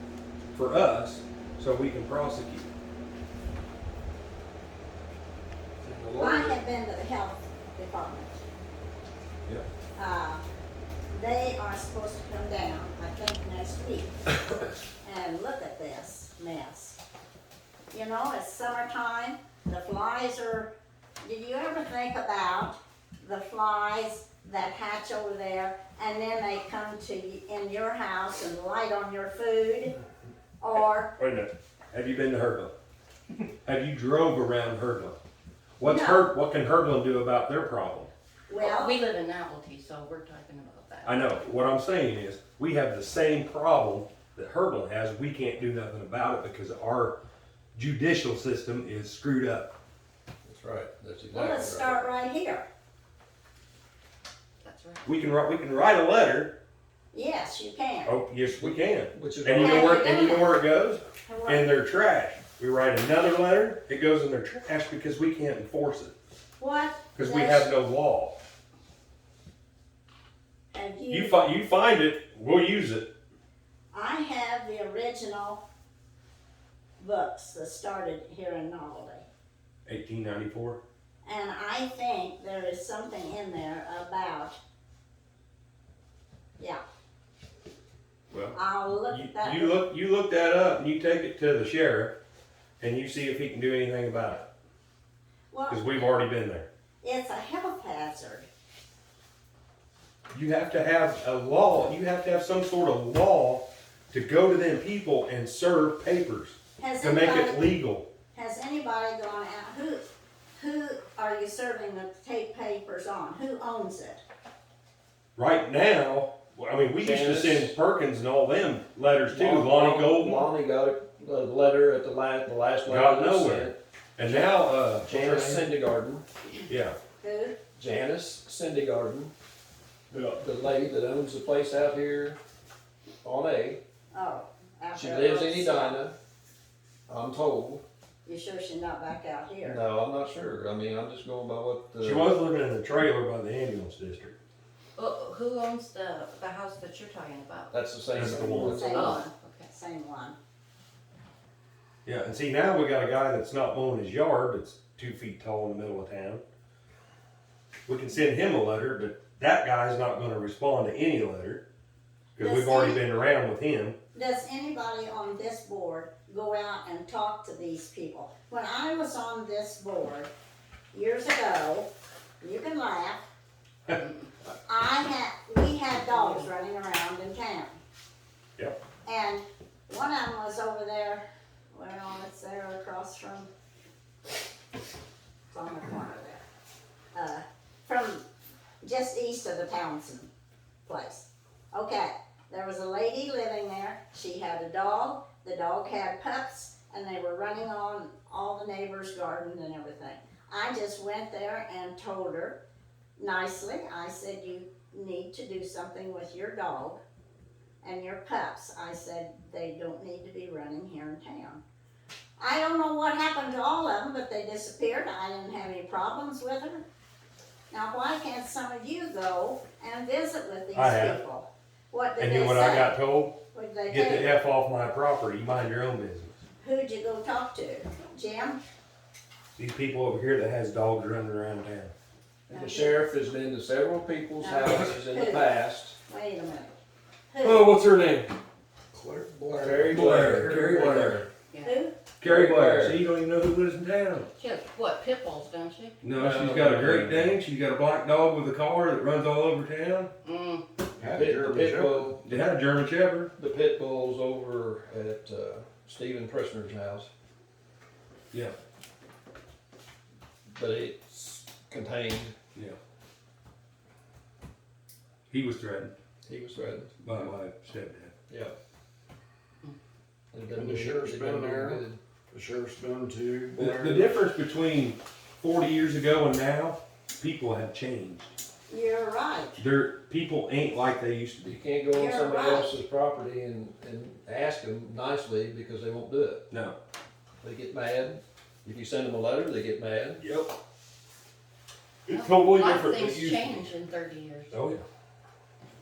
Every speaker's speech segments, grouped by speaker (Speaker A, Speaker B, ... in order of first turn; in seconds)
Speaker A: 0.5-2.7, 31.2-32.7, 33.6-35.2, 35.8-38.1, 41.1-47.2, 47.8-49.7, 55.0-56.5, 58.0-66.1, 67.2-68.4, 71.1-73.1, 79.9-80.8, 88.3-88.6, 89.1-92.2, 92.8-94.5, 95.7-96.7, 100.3-108.1, 115.4-120.5, 122.9-125.7, 126.7-127.0, 130.1-130.4, 142.0-144.3, 148.2-148.9, 152.1-156.4, 157.9-161.6, 162.4-164.0, 220.7-221.2, 222.2-223.4, 223.9-226.3, 229.6-231.9, 237.4-238.3, 239.9-241.2, 242.2-244.3, 246.0-250.1, 252.2-253.3, 265.3-265.9, 267.0-268.1, 273.6-278.3, 279.6-281.6, 286.5-286.8, 290.2-290.5, 292.1-293.7, 294.5-294.8
Speaker B: 5.8-6.6, 50.4-52.1, 58.6-60.1, 117.0-117.7, 119.3-123.8, 125.1-126.2, 127.8-129.3, 130.4-132.4, 133.2-133.8, 134.9-136.2, 137.1-137.8, 139.6-142.3, 147.7-149.2, 232.5-236.0, 239.5-241.3, 242.2-243.0, 246.2-247.3, 251.0-252.3, 253.4-257.1, 260.5-262.4, 266.3-267.0, 268.3-268.6, 270.3-272.0, 281.4-286.4, 287.4-290.2
Speaker C: 6.2-8.4, 10.0-10.4, 11.1-14.2, 15.0-17.0, 17.9-20.7, 21.2-30.0, 30.6-31.1, 35.8-36.3, 38.5-39.0, 51.3-52.7, 57.1-58.2, 59.6-60.6, 61.3-61.7, 66.6-67.7, 70.7-71.5, 73.9-75.6, 77.0-79.2, 81.2-84.6, 88.5-89.8, 95.5-95.8, 97.0-98.5, 106.8-107.6, 108.3-110.1, 110.6-114.2, 127.2-127.6, 134.1-136.0, 138.2-139.8, 148.6-150.4, 162.4-163.0, 164.1-170.3, 170.9-171.9, 172.4-173.3, 174.7-177.8, 179.1-183.5, 185.5-186.4, 187.1-188.2, 188.8-190.3, 190.9-202.6, 203.2-207.0, 207.8-211.6, 212.4-216.8, 217.7-222.9, 223.5-224.3, 226.6-228.6, 232.5-233.0, 234.4-236.7, 237.3-237.8, 241.6-242.0, 278.7-279.6, 281.9-282.7
Speaker D: 38.6-41.3, 54.6-55.1, 145.0-147.7, 148.7-149.7, 174.0-174.2, 176.0-176.5, 244.4-246.0, 250.2-250.7, 292.1-294.5
Speaker E: 239.3-239.9, 251.0-252.1, 270.6-274.0